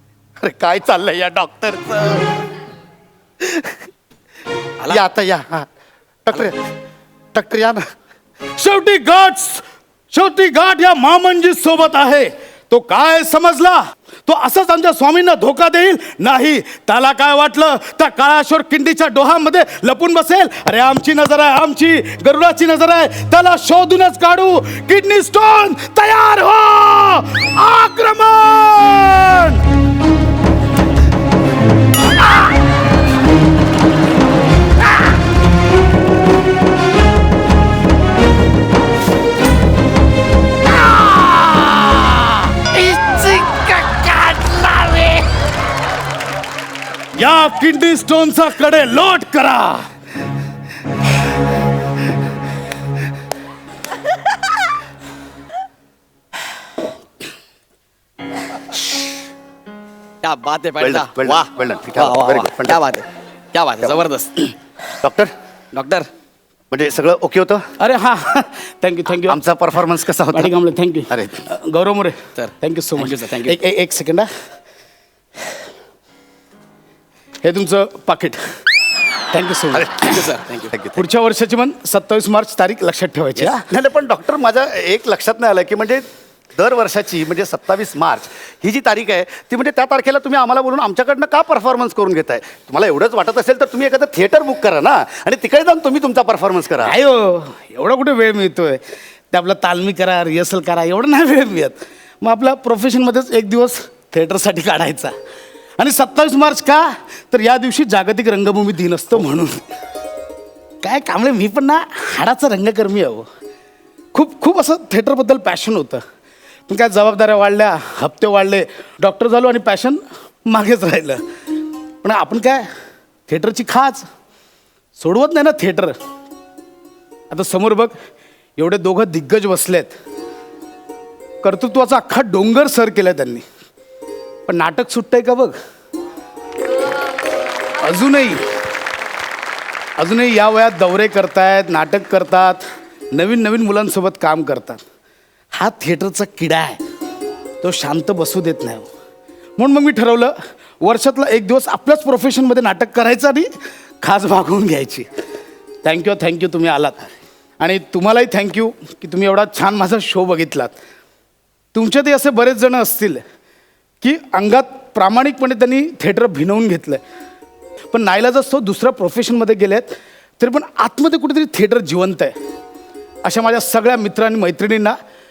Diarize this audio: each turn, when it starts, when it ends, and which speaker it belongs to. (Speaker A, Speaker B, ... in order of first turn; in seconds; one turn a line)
Speaker A: 0.4-2.3
Speaker A: 3.4-3.7
Speaker A: 4.9-5.7
Speaker A: 6.2-6.6
Speaker A: 7.3-7.8
Speaker B: 8.6-29.6
Speaker A: 40.9-45.2
Speaker B: 47.1-49.9
Speaker C: 60.2-64.5
Speaker A: 60.8-62.8
Speaker A: 65.0-65.3
Speaker C: 65.7-66.1
Speaker A: 66.7-67.6
Speaker B: 67.8-69.4
Speaker A: 69.3-70.5
Speaker B: 70.3-74.3
Speaker A: 71.1-71.4
Speaker C: 72.3-73.6
Speaker B: 77.4-78.4
Speaker B: 79.3-80.1
Speaker A: 79.7-80.2
Speaker C: 80.0-80.7
Speaker A: 80.7-81.0
Speaker B: 81.0-83.6
Speaker A: 83.4-96.9
Speaker B: 96.8-105.1
Speaker B: 105.8-109.6
Speaker B: 110.8-113.2
Speaker B: 114.1-116.0
Speaker B: 116.7-121.2
Speaker B: 122.0-122.7
Speaker B: 123.3-124.0
Speaker B: 125.0-125.9
Speaker B: 127.3-127.9
Speaker B: 128.6-129.9
Speaker B: 131.4-133.4
Speaker B: 134.4-135.6
Speaker B: 137.8-138.4
Speaker B: 140.0-144.8
Speaker B: 145.5-146.8
Speaker B: 147.6-148.8
Speaker B: 149.6-153.5
Speaker B: 154.0-155.1
Speaker B: 155.8-157.1
Speaker B: 157.6-160.7
Speaker B: 161.7-163.2
Speaker B: 164.0-167.0
Speaker B: 167.9-172.3
Speaker B: 173.2-174.9